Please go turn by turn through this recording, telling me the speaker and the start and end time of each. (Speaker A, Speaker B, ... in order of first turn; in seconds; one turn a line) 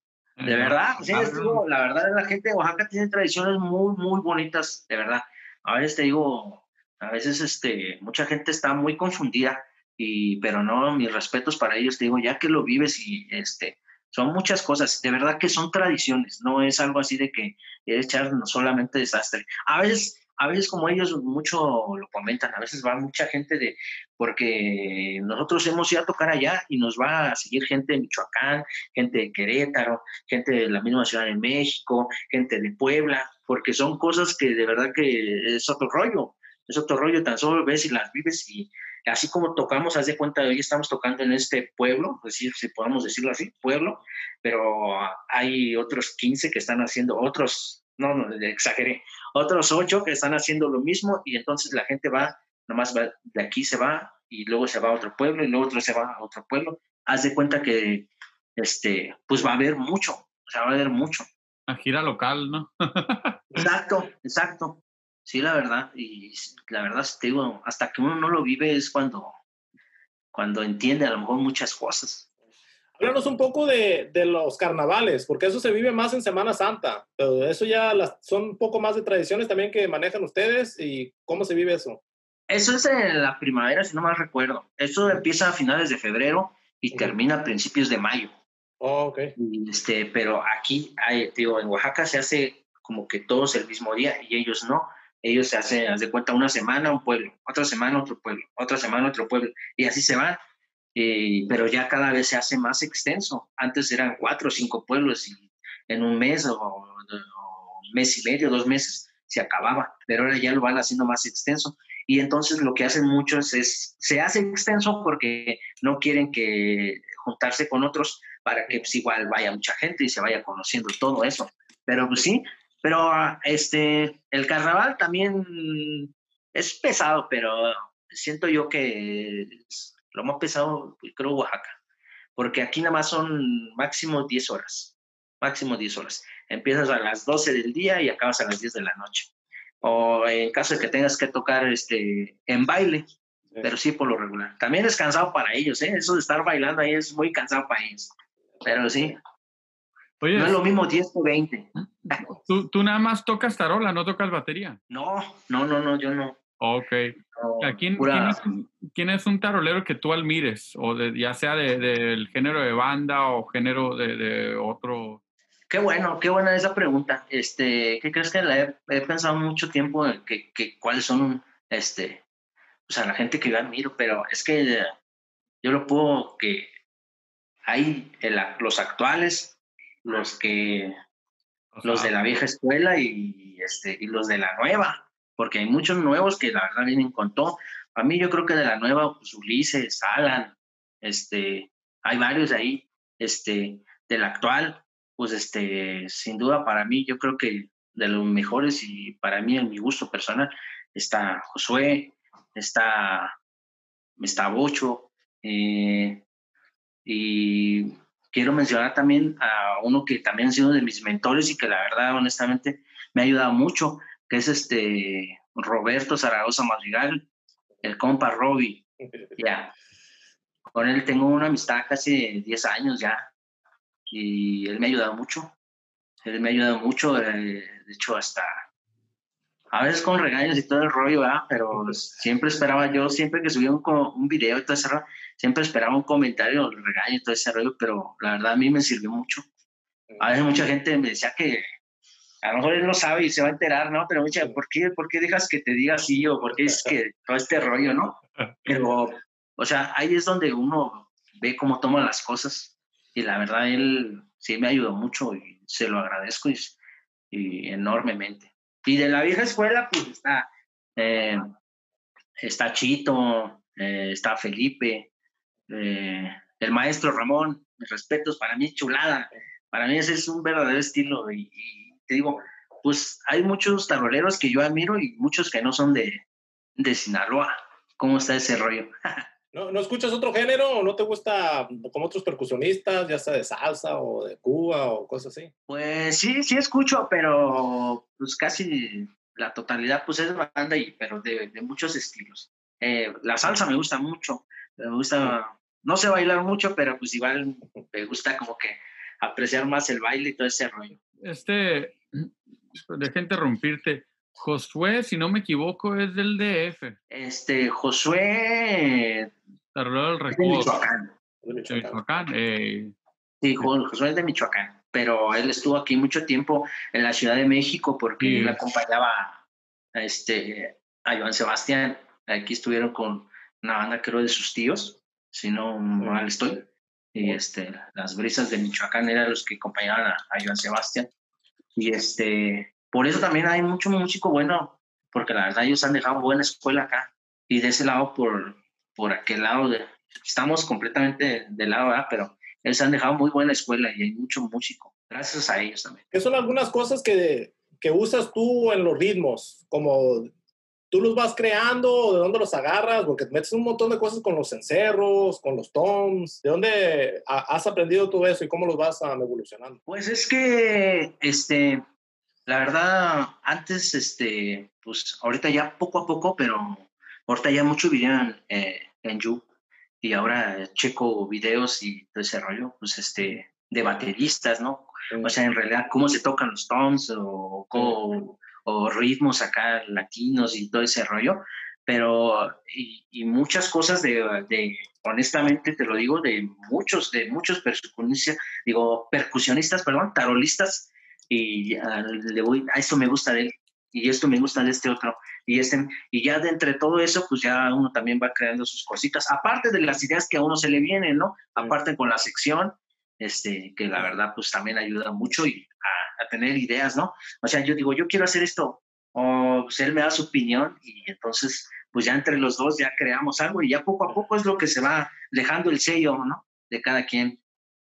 Speaker A: 0.4-1.6
Speaker B: 0.4-61.3
Speaker A: 61.7-63.4
Speaker B: 63.6-69.3
Speaker B: 70.3-72.3
Speaker C: 73.0-82.0
Speaker B: 82.5-88.3
Speaker C: 88.8-89.3
Speaker B: 89.4-100.4
Speaker B: 100.9-131.8
Speaker B: 132.4-139.3
Speaker B: 139.8-143.1
Speaker B: 143.6-149.2
Speaker A: 150.2-150.6
Speaker B: 150.3-152.2
Speaker A: 152.1-154.8
Speaker B: 154.9-156.4
Speaker A: 156.6-165.2
Speaker B: 157.3-158.4
Speaker B: 165.7-172.2
Speaker B: 172.9-174.9
Speaker B: 175.6-176.7
Speaker B: 177.7-180.9
Speaker A: 181.7-182.1
Speaker B: 181.8-203.3
Speaker B: 204.2-206.2
Speaker B: 207.1-217.3
Speaker B: 217.8-218.8
Speaker C: 219.1-219.3
Speaker B: 219.4-219.7
Speaker B: 220.7-223.3
Speaker B: 224.1-225.5
Speaker B: 226.2-228.6
Speaker B: 229.7-239.4
Speaker B: 240.2-241.7
Speaker B: 242.4-256.8
Speaker B: 257.3-261.6
Speaker B: 262.4-265.1
Speaker B: 265.7-276.2
Speaker B: 276.8-279.2
Speaker C: 279.5-285.5
Speaker B: 285.7-301.0
Speaker A: 301.2-307.0
Speaker B: 307.1-309.3
Speaker A: 309.8-310.8
Speaker B: 310.3-311.1
Speaker C: 311.4-312.0
Speaker A: 311.7-312.9
Speaker B: 313.4-319.4
Speaker A: 318.2-318.6
Speaker B: 319.9-331.1
Speaker B: 331.8-346.1
Speaker C: 346.1-350.3
Speaker C: 350.9-359.8
Speaker B: 359.9-361.8
Speaker B: 362.5-369.4
Speaker B: 370.0-417.4